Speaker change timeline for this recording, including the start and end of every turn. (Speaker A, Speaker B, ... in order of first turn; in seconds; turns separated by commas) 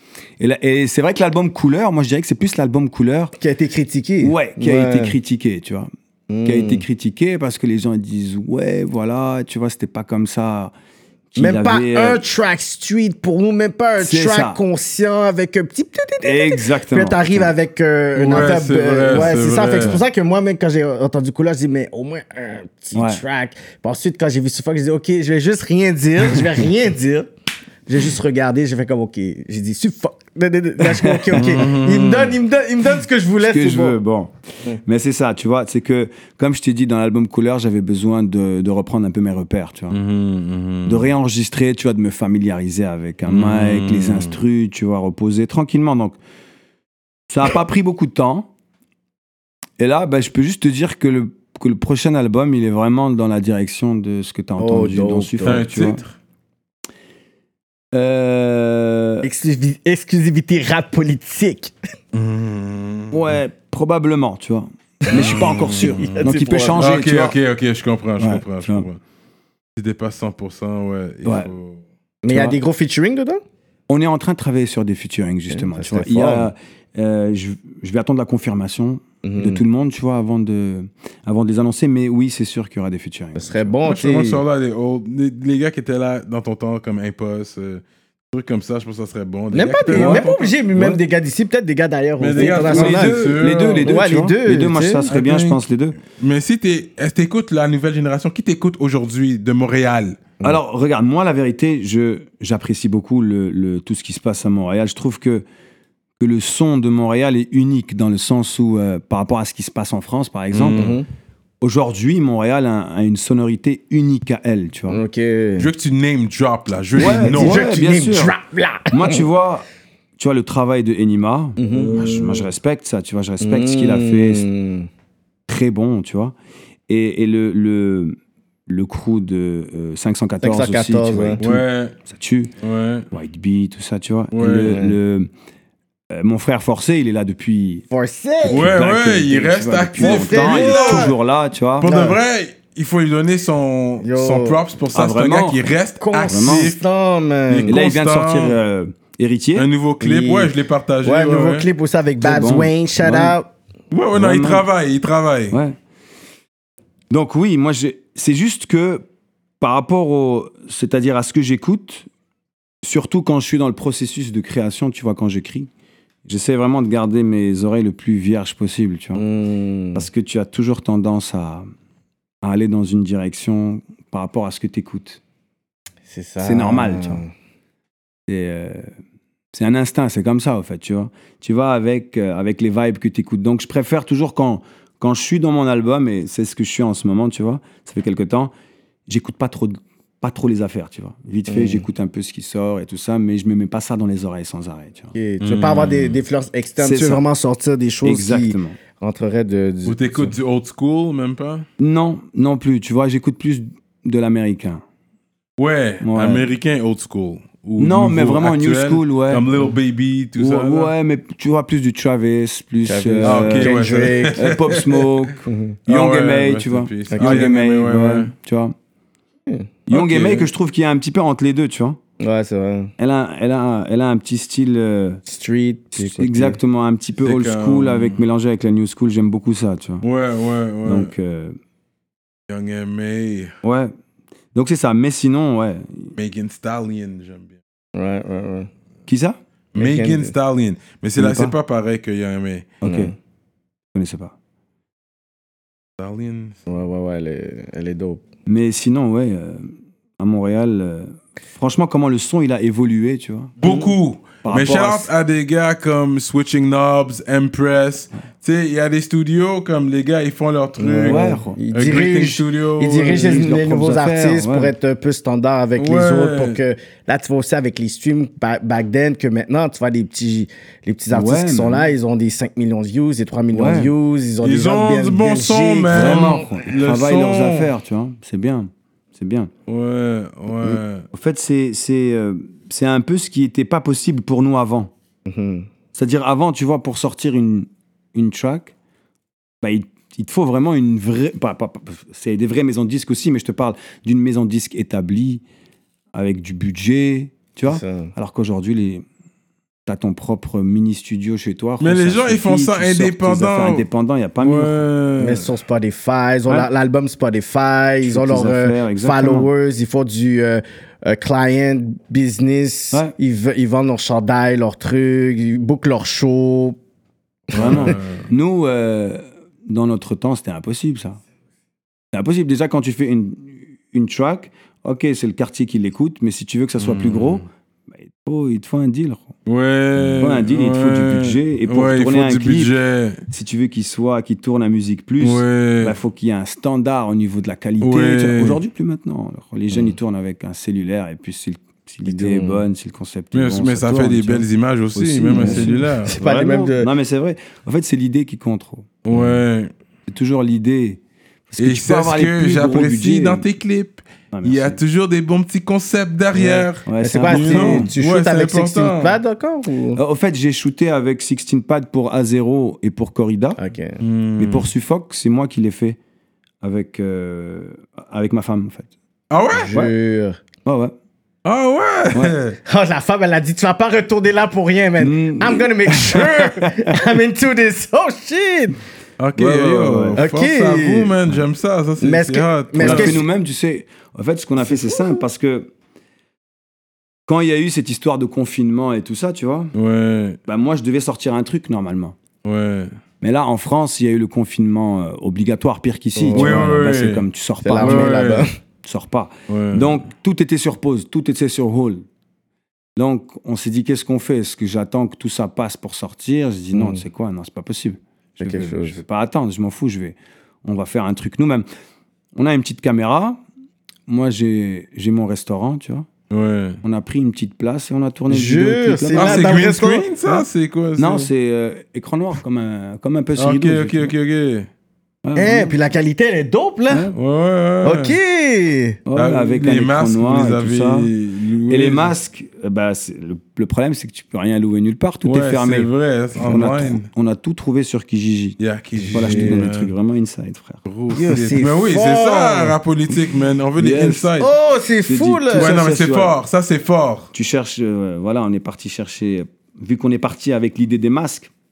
Speaker A: 0.4-3.3, Speaker B: 3.4-5.1, Speaker A: 4.2-5.9, Speaker B: 6.3-6.8, Speaker A: 6.4-10.7, Speaker A: 11.3-12.2, Speaker B: 11.4-27.3, Speaker A: 14.0-14.6, Speaker A: 16.2-17.5, Speaker C: 18.1-20.0, Speaker A: 22.9-23.2, Speaker B: 27.9-34.0, Speaker A: 30.8-31.7, Speaker C: 31.3-32.4, Speaker A: 33.4-40.0, Speaker C: 39.9-41.1, Speaker A: 40.9-46.2, Speaker C: 43.3-44.4, Speaker A: 47.3-48.5, Speaker A: 49.8-56.0, Speaker B: 54.6-55.6, Speaker C: 55.4-56.1, Speaker A: 57.9-59.2, Speaker B: 59.2-61.7, Speaker C: 62.1-63.3, Speaker A: 63.1-67.3, Speaker B: 65.1-66.8, Speaker C: 65.1-69.0, Speaker A: 68.2-68.9, Speaker C: 69.8-71.8, Speaker A: 71.2-71.5, Speaker B: 72.2-73.4, Speaker A: 72.3-72.6, Speaker A: 73.9-83.8, Speaker B: 75.5-76.5, Speaker B: 79.2-79.6, Speaker B: 83.3-84.4, Speaker C: 83.8-90.7, Speaker B: 89.5-93.3, Speaker A: 89.9-91.0, Speaker C: 92.2-93.9, Speaker A: 92.3-96.0, Speaker B: 93.8-95.0, Speaker C: 95.1-100.2, Speaker A: 100.4-105.4, Speaker A: 106.2-111.0, Speaker C: 110.5-111.0, Speaker B: 110.7-111.0, Speaker A: 111.6-115.0, Speaker B: 114.9-115.7, Speaker C: 115.6-117.6, Speaker A: 117.0-118.3, Speaker B: 117.0-119.2, Speaker A: 118.9-119.6, Speaker A: 120.2-124.5, Speaker B: 121.6-122.2, Speaker C: 122.0-122.3, Speaker B: 123.4-124.9, Speaker A: 125.5-126.3, Speaker A: 126.9-132.5, Speaker B: 130.4-131.4, Speaker C: 131.4-131.9, Speaker C: 132.6-133.1, Speaker A: 133.1-135.3, Speaker C: 134.3-134.8, Speaker B: 134.7-134.9, Speaker A: 136.1-137.8, Speaker B: 137.9-138.7, Speaker A: 138.4-141.9, Speaker C: 138.5-141.1, Speaker B: 140.0-141.1, Speaker C: 141.8-146.8, Speaker B: 141.8-142.2, Speaker B: 144.0-144.6, Speaker A: 144.9-145.6, Speaker B: 146.0-147.8, Speaker A: 146.2-146.7, Speaker C: 147.5-148.6, Speaker A: 147.7-149.7, Speaker C: 149.6-151.7, Speaker B: 150.0-150.5, Speaker B: 151.0-153.5, Speaker A: 152.2-153.3, Speaker C: 153.9-155.6, Speaker A: 154.1-154.7, Speaker A: 155.5-155.8, Speaker A: 157.1-159.0, Speaker A: 159.6-162.1, Speaker A: 162.8-165.7, Speaker A: 166.2-169.2, Speaker B: 169.2-170.1, Speaker A: 169.9-171.7, Speaker A: 172.4-175.2, Speaker B: 176.1-177.3, Speaker A: 176.4-177.2, Speaker A: 178.3-178.9, Speaker A: 179.5-188.5, Speaker A: 189.1-195.1, Speaker B: 191.5-191.8, Speaker B: 195.1-200.3, Speaker C: 195.4-196.2, Speaker A: 196.8-197.2, Speaker A: 198.0-198.8, Speaker C: 199.8-201.7, Speaker A: 201.8-204.8, Speaker C: 205.6-210.9, Speaker A: 206.0-206.5, Speaker A: 207.8-209.5, Speaker A: 210.4-218.8, Speaker B: 212.8-214.4, Speaker C: 213.2-215.1, Speaker B: 215.4-215.8, Speaker C: 215.9-218.3, Speaker B: 217.1-217.5, Speaker A: 219.9-222.0, Speaker C: 219.9-220.5, Speaker B: 222.2-222.9, Speaker A: 223.0-225.2, Speaker B: 225.2-226.6, Speaker A: 225.9-230.0, Speaker C: 227.2-228.2, Speaker C: 230.0-231.1, Speaker A: 230.8-231.6, Speaker C: 232.5-233.5, Speaker A: 233.6-233.9, Speaker A: 234.5-236.1, Speaker C: 236.2-237.6, Speaker B: 237.9-238.7, Speaker A: 239.1-239.4, Speaker C: 239.7-242.8, Speaker B: 239.8-240.3, Speaker A: 241.2-241.6, Speaker A: 242.8-243.1, Speaker B: 242.8-243.1, Speaker A: 243.9-244.3, Speaker C: 246.0-246.6, Speaker B: 246.7-248.2, Speaker A: 248.4-253.5, Speaker C: 253.6-263.4, Speaker B: 253.6-253.9, Speaker A: 254.4-255.1, Speaker B: 260.8-276.4, Speaker A: 261.0-261.6, Speaker A: 263.1-264.7, Speaker C: 265.8-266.6, Speaker A: 271.1-271.9, Speaker A: 273.5-273.9, Speaker C: 274.4-277.7, Speaker A: 275.9-279.5, Speaker C: 279.7-281.0, Speaker A: 280.6-284.9, Speaker B: 285.3-285.7, Speaker A: 285.9-288.7, Speaker A: 289.6-295.4, Speaker A: 296.1-299.0, Speaker B: 297.7-298.1, Speaker A: 299.9-304.8, Speaker C: 301.8-303.8, Speaker C: 304.4-305.5, Speaker B: 305.2-316.8, Speaker A: 308.0-309.5, Speaker B: 317.5-317.9, Speaker C: 317.5-318.3, Speaker A: 317.5-321.2, Speaker A: 322.1-329.3, Speaker C: 326.8-327.4, Speaker C: 329.4-333.2, Speaker A: 330.0-332.7, Speaker A: 333.3-349.4, Speaker C: 335.2-335.9, Speaker C: 337.8-338.6, Speaker B: 342.0-342.6, Speaker C: 343.3-346.1, Speaker B: 345.3-346.9, Speaker C: 349.1-349.7, Speaker A: 350.1-353.4, Speaker C: 351.6-359.2, Speaker A: 354.3-354.8, Speaker A: 356.4-357.9, Speaker B: 357.0-360.0, Speaker A: 359.9-363.6, Speaker B: 363.6-364.0, Speaker C: 364.0-364.7, Speaker A: 364.4-366.0, Speaker A: 366.6-368.9, Speaker C: 369.3-369.7, Speaker B: 369.6-370.4, Speaker A: 370.6-370.9, Speaker C: 371.4-372.6, Speaker B: 372.6-378.8, Speaker A: 375.0-377.0, Speaker C: 379.2-383.2, Speaker A: 379.4-380.2, Speaker B: 380.2-381.1, Speaker B: 382.0-383.2, Speaker A: 382.8-385.7, Speaker B: 384.7-385.2, Speaker A: 387.3-389.7, Speaker C: 389.7-390.4, Speaker A: 390.5-392.2, Speaker C: 392.4-392.9, Speaker A: 393.2-398.2, Speaker B: 396.1-396.6, Speaker C: 396.3-397.2, Speaker B: 397.6-398.5, Speaker C: 397.8-398.5, Speaker A: 398.8-402.0, Speaker C: 399.5-399.9, Speaker A: 402.9-411.6, Speaker B: 406.7-407.0, Speaker B: 408.4-409.0, Speaker A: 412.3-413.4, Speaker A: 414.1-416.1, Speaker C: 416.3-416.8, Speaker A: 416.8-419.6, Speaker B: 418.3-420.1, Speaker C: 419.1-421.3, Speaker A: 421.0-424.1, Speaker C: 423.4-424.7, Speaker A: 425.2-425.8, Speaker B: 425.4-427.1, Speaker A: 426.9-427.1, Speaker C: 427.1-428.2, Speaker B: 427.8-429.0, Speaker A: 429.1-431.1, Speaker C: 429.1-432.1, Speaker A: 431.7-438.6, Speaker C: 435.2-437.1, Speaker C: 438.6-439.9, Speaker B: 438.9-439.6, Speaker A: 439.1-440.8, Speaker C: 440.9-444.5, Speaker B: 441.1-442.7, Speaker A: 443.8-444.3, Speaker B: 444.4-445.7, Speaker A: 445.1-446.3, Speaker C: 445.5-447.3, Speaker A: 447.3-451.5